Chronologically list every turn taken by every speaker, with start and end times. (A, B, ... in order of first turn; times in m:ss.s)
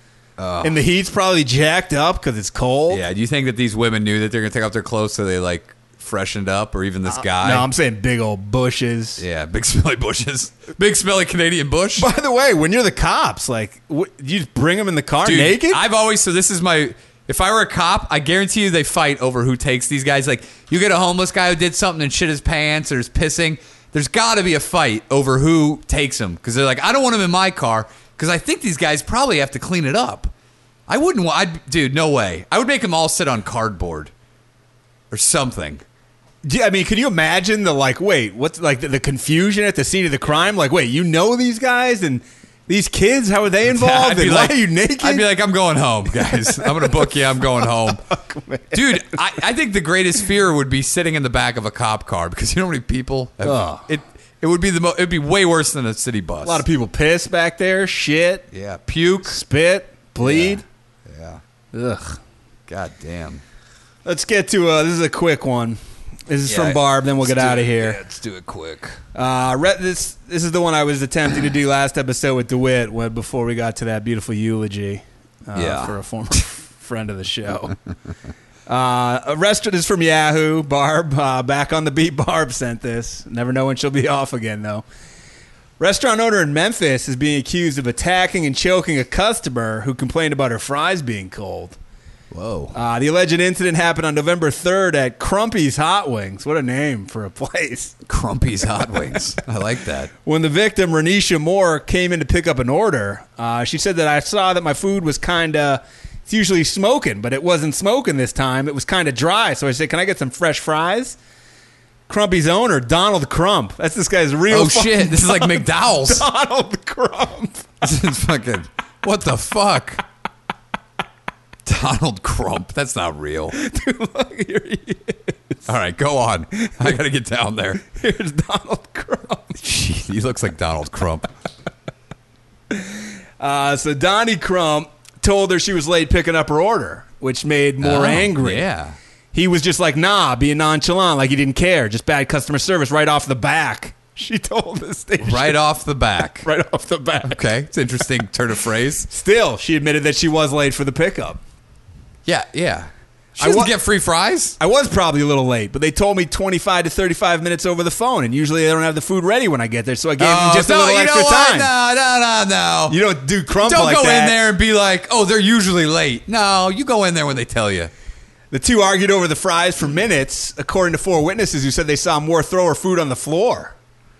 0:00.4-0:00.8 A
0:00.6-0:03.0 B
0:02.9-0:07.7 A
0:07.1-0:09.2 B
0:09.2-0:12.1 A
0:12.0-0:15.8 B
0:15.2-0:30.3 A
0:30.9-0:34.1 A
0:35.1-0:35.8 A
0:36.4-0:45.2 B
0:43.7-0:48.0 A
0:46.2-0:47.1 B
0:47.6-0:49.2 B
0:48.7-0:56.6 A
0:53.4-0:53.9 B
0:56.4-0:58.5 B
0:58.5-0:59.4 A
0:59.3-1:00.6 B
1:00.2-1:01.4 A
1:01.7-1:02.2 B
1:02.7-1:03.4 A
1:04.0-1:08.0 B
1:06.5-1:09.0 A
1:09.1-1:17.8 B
1:15.6-1:16.0 A
1:18.7-1:24.8 B
1:25.8-1:31.8 B
1:32.3-1:32.8 A
1:32.7-1:38.0 B
1:38.1-1:40.1 A
1:40.2-1:51.2 B
1:52.1-1:57.9 B
1:54.5-1:56.3 A
1:57.8-2:00.0 A
2:01.6-2:03.6 A
2:03.5-2:05.7 B
2:05.7-2:07.9 A
2:07.9-2:09.6 B
2:09.6-2:11.3 A
2:12.7-2:18.6 B
2:17.8-2:19.0 A
2:19.3-2:25.6 B
2:25.2-2:26.5 A
2:26.4-2:27.4 B
2:27.3-2:29.1 A
2:29.1-2:31.4 B
2:32.3-2:34.6 A
2:33.4-2:33.7 B
2:34.6-2:41.7 B
2:40.2-2:43.0 A
2:42.9-2:44.4 B
2:43.6-2:47.9 A
2:48.5-2:53.8 B